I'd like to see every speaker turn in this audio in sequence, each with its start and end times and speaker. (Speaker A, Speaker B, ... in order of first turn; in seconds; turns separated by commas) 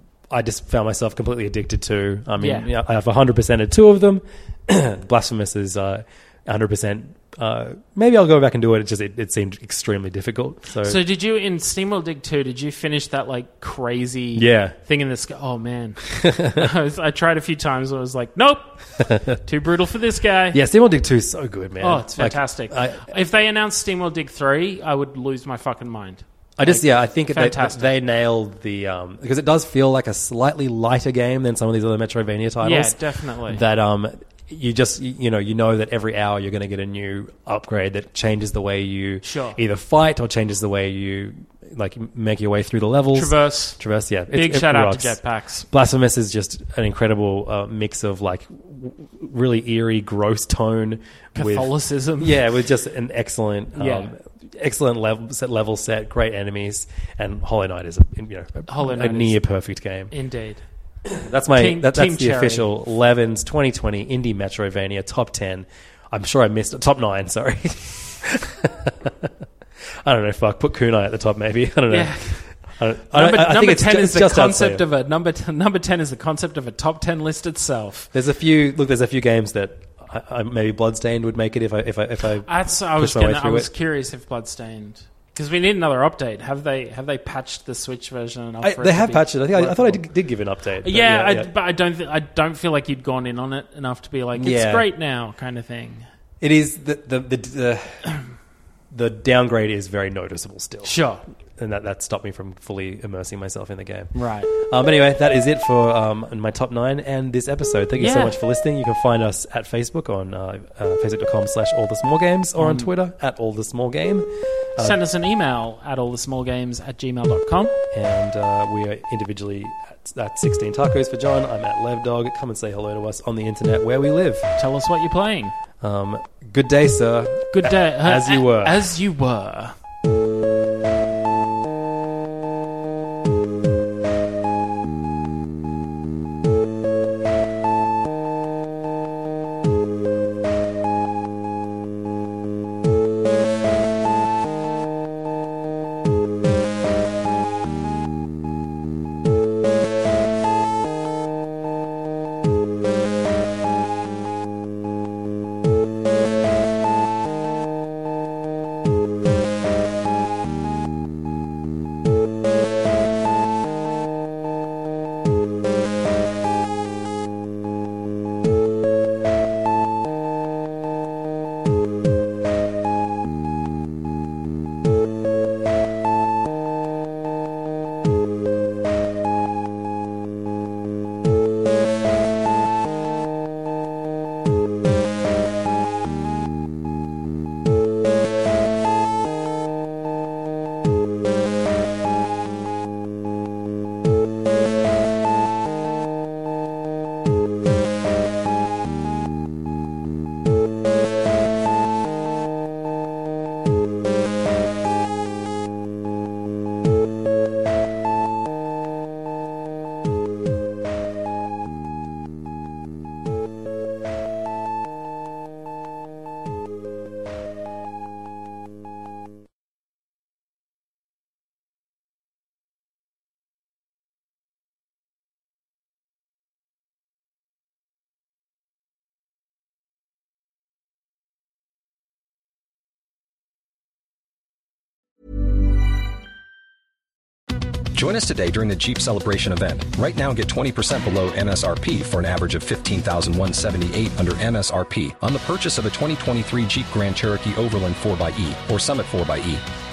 Speaker A: 0.3-11.0, Speaker B: 2.4-2.7, Speaker B: 10.8-20.6, Speaker A: 14.3-14.8, Speaker A: 16.1-16.7, Speaker A: 19.0-19.4, Speaker A: 20.5-23.1, Speaker B: 21.8-27.9, Speaker A: 26.6-60.1, Speaker B: 32.6-33.6, Speaker B: 39.2-39.6, Speaker B: 43.1-43.8, Speaker B: 44.3-45.7, Speaker B: 51.4-52.4, Speaker B: 53.8-54.1, Speaker B: 58.7-59.4, Speaker B: 60.1-60.6, Speaker A: 61.1-69.3, Speaker B: 61.5-62.7, Speaker A: 70.0-74.8, Speaker B: 71.9-72.5, Speaker B: 73.1-78.1, Speaker A: 78.1-83.7, Speaker B: 82.5-90.1, Speaker A: 88.6-91.5, Speaker B: 90.8-96.1, Speaker A: 94.4-94.9, Speaker A: 96.4-98.0, Speaker A: 98.9-101.0, Speaker B: 100.8-101.2, Speaker A: 101.6-115.0, Speaker B: 104.1-104.5, Speaker B: 108.0-108.4, Speaker B: 112.6-112.9, Speaker B: 114.8-117.8, Speaker A: 117.9-124.5, Speaker B: 124.6-125.5, Speaker A: 125.8-128.9, Speaker B: 127.5-129.8, Speaker C: 237.9-249.7